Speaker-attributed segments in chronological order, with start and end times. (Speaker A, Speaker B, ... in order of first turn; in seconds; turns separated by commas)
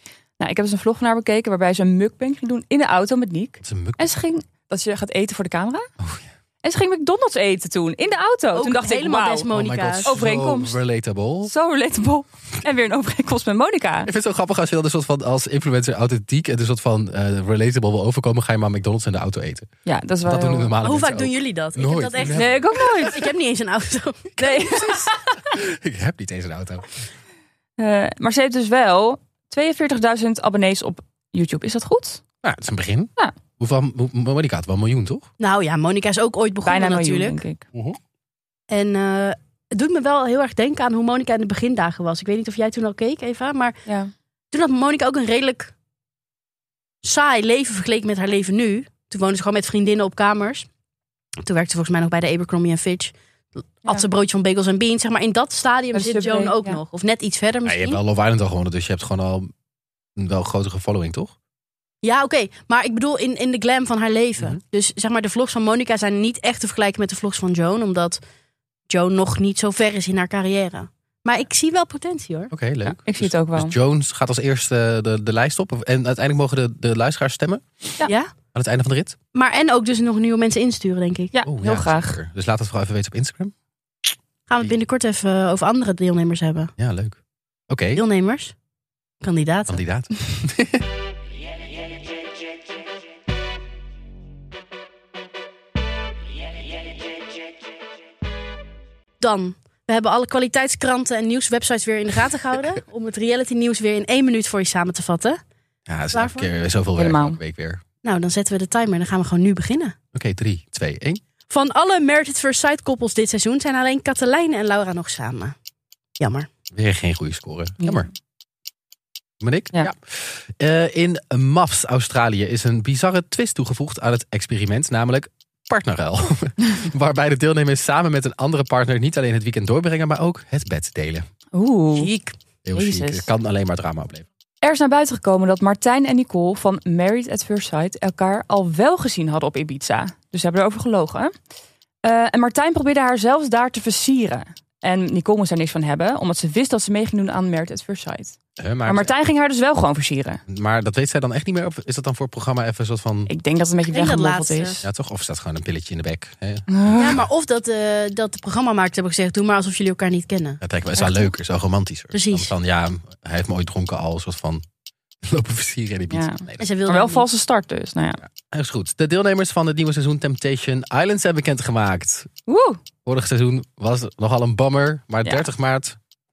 Speaker A: 0.4-5.9, Speaker B: 3.6-4.2, Speaker B: 6.0-6.3, Speaker A: 6.6-9.5, Speaker C: 8.5-10.1, Speaker B: 9.5-11.5, Speaker A: 10.0-10.8, Speaker A: 11.4-14.1, Speaker B: 14.1-19.7, Speaker A: 19.9-20.7, Speaker B: 20.2-23.0, Speaker C: 20.8-25.1, Speaker A: 22.3-23.2, Speaker A: 24.4-25.2, Speaker B: 25.5-26.9, Speaker A: 27.8-32.2, Speaker B: 32.4-35.3, Speaker C: 35.4-37.4, Speaker A: 36.6-37.6, Speaker C: 38.7-43.7, Speaker C: 44.5-45.7, Speaker C: 47.0-50.7, Speaker C: 51.4-53.1, Speaker C: 53.8-58.0, Speaker A: 55.9-56.8, Speaker B: 57.6-59.5, Speaker B: 60.1-61.3, Speaker C: 62.0-68.2, Speaker C: 68.9-72.5, Speaker B: 72.5-77.6, Speaker A: 72.8-73.7, Speaker C: 78.0-78.3, Speaker B: 78.5-79.2, Speaker C: 79.3-81.3, Speaker A: 81.3-82.2, Speaker B: 81.5-83.5, Speaker C: 84.5-86.7, Speaker B: 86.8-88.0, Speaker C: 87.9-88.5, Speaker C: 89.2-89.8, Speaker B: 89.7-90.8, Speaker C: 99.2-105.4, Speaker B: 105.9-107.8, Speaker C: 106.1-106.5, Speaker A: 107.0-107.4, Speaker C: 108.0-110.0, Speaker B: 110.1-111.2, Speaker C: 111.5-115.5, Speaker C: 116.2-116.5, Speaker B: 116.7-118.1, Speaker A: 117.8-118.0, Speaker B: 119.4-131.2, Speaker A: 131.5-132.1, Speaker C: 131.9-132.3, Speaker B: 132.6-134.2, Speaker A: 132.7-133.2, Speaker A: 134.6-141.3, Speaker A: 142.0-150.4, Speaker B: 148.6-149.2, Speaker B: 150.5-153.3, Speaker A: 153.3-154.8, Speaker C: 153.9-154.8, Speaker B: 154.8-157.2, Speaker A: 156.7-157.0, Speaker C: 156.9-160.6, Speaker B: 160.6-164.6, Speaker A: 161.0-161.3, Speaker C: 162.1-162.5, Speaker B: 165.2-166.7, Speaker A: 166.1-168.2, Speaker C: 166.6-167.2, Speaker B: 168.2-172.3, Speaker A: 172.5-172.8, Speaker B: 173.0-176.0